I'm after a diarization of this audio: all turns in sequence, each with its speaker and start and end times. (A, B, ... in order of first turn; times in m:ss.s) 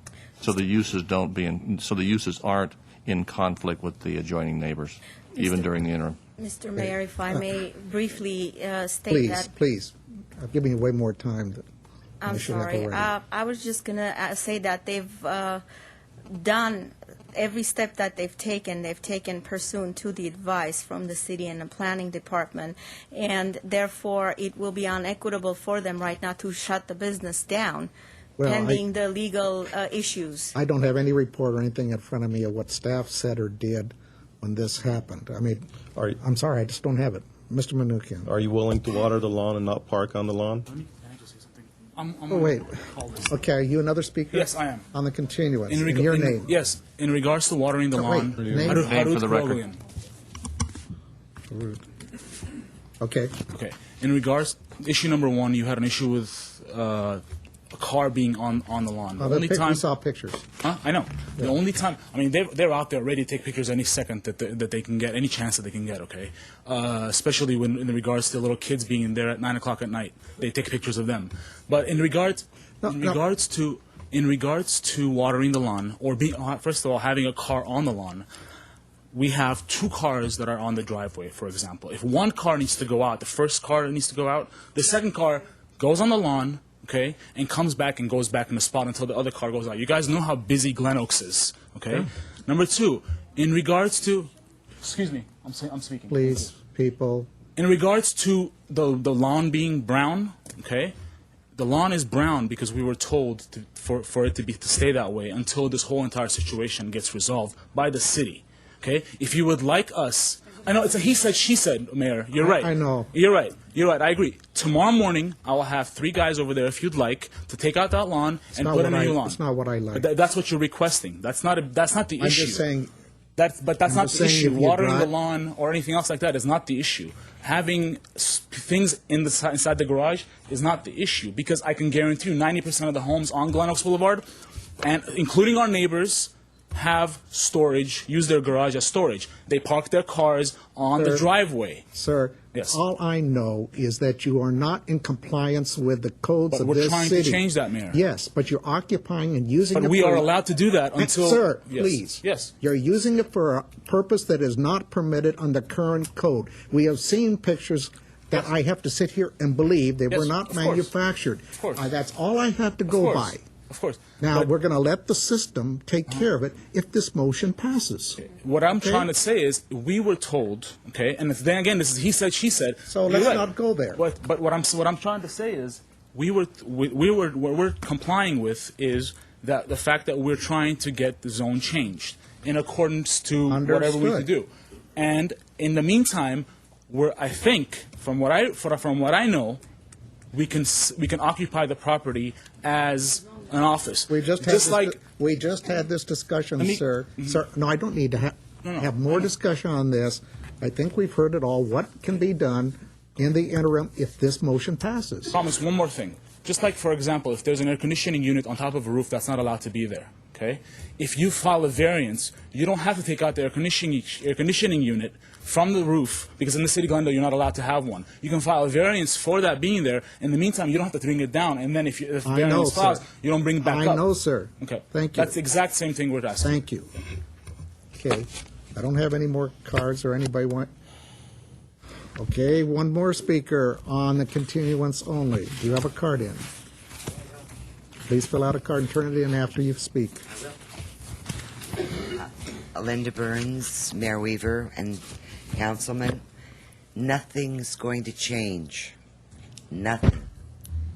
0:00.4-0:06.2 A
0:05.4-0:05.7 B
0:06.4-0:09.5 B
0:06.8-0:07.5 C
0:09.1-0:11.6 C
0:12.2-0:15.6 B
0:12.3-0:13.1 C
0:16.3-0:30.6 B
0:28.4-0:28.8 C
0:30.6-0:35.7 C
0:36.0-0:36.2 D
0:36.2-0:38.3 C
0:38.3-0:40.7 D
0:40.7-0:43.3 E
0:42.3-0:46.6 C
0:44.3-0:44.8 E
0:45.7-0:49.8 E
0:47.9-0:48.9 C
0:48.5-0:48.8 D
0:48.7-0:49.6 A
0:51.5-0:51.8 C
0:53.0-0:53.3 C
0:53.5-0:59.8 E
0:59.2-1:00.4 C
1:00.6-1:18.3 E
1:12.8-1:13.2 C
1:19.1-1:34.3 E
1:34.8-1:36.5 E
1:36.1-1:37.3 C
1:37.6-1:40.9 E
1:41.6-1:59.4 E
1:52.4-1:53.1 C
1:58.6-2:00.1 C
1:59.9-2:02.6 E
2:02.2-2:02.9 C
2:03.4-2:14.2 E
2:03.8-2:05.1 C
2:14.8-2:21.8 E
2:20.9-2:21.3 C
2:21.9-2:30.3 C
2:22.5-2:22.8 E
2:26.5-2:28.0 E
2:29.7-2:32.5 E
2:31.0-2:43.4 C
2:40.1-2:40.9 E
2:41.6-2:41.9 E
2:42.9-2:44.5 E
2:44.2-2:49.1 C
2:48.2-3:09.6 E
2:52.9-2:54.0 C
3:03.5-3:04.3 C
3:10.3-3:15.0 E
3:14.1-3:25.4 C
3:16.6-3:17.4 E
3:18.6-3:18.9 E
3:25.3-3:44.0 E
3:42.2-3:43.0 C
3:43.6-3:45.4 C
3:44.6-3:46.6 E
3:46.4-3:46.9 C
3:47.9-3:50.7 C
3:52.2-3:56.5 C
3:58.1-4:00.2 C
4:02.2-4:06.2 F
4:07.0-4:09.0 F
4:09.7-4:10.3 F